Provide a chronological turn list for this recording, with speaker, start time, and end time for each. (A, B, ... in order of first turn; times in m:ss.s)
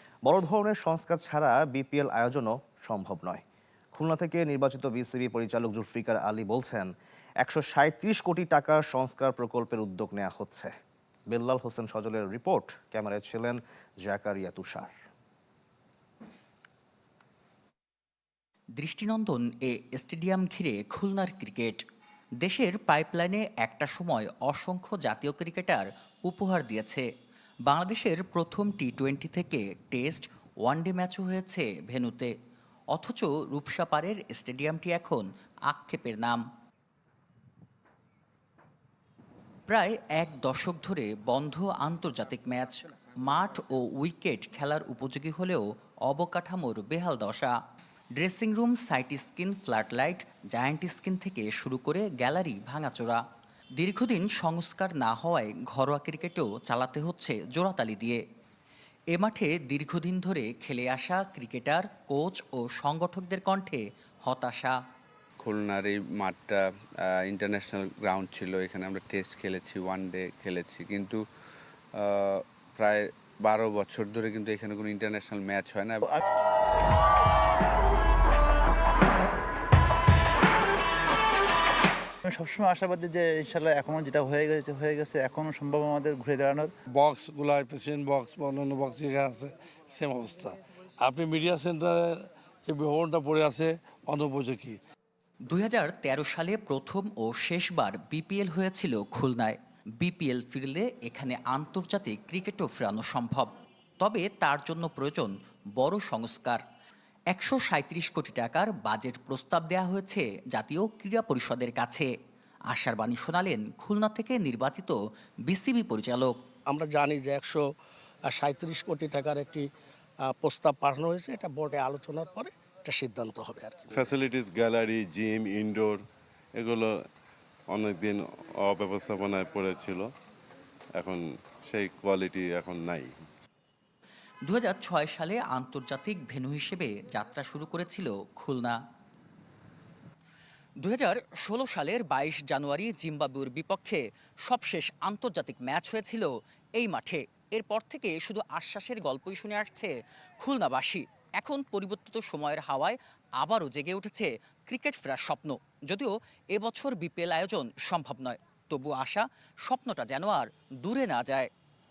0:00.3-0:03.4 A
0:04.0-0:10.7 A
0:11.3-0:14.9 A
0:18.8-0:21.8 B
0:22.4-0:27.1 B
0:27.7-0:32.3 B
0:32.9-0:36.4 B
0:39.7-0:47.6 B
0:48.1-0:53.2 B
0:53.8-0:58.2 B
0:59.1-1:04.8 B
1:05.4-1:11.2 C
1:12.0-1:16.0 C
1:22.2-1:26.7 D
1:26.9-1:34.8 E
1:35.5-1:46.6 B
1:47.3-1:52.1 B
1:52.7-1:56.4 B
1:56.7-1:57.6 F
1:58.3-1:59.7 F
2:00.2-2:04.2 F
2:04.3-2:06.0 G
2:06.6-2:06.9 G
2:07.8-2:08.2 G
2:08.7-2:10.0 G
2:11.7-2:13.0 G
2:14.4-2:18.8 B
2:20.8-2:41.5 B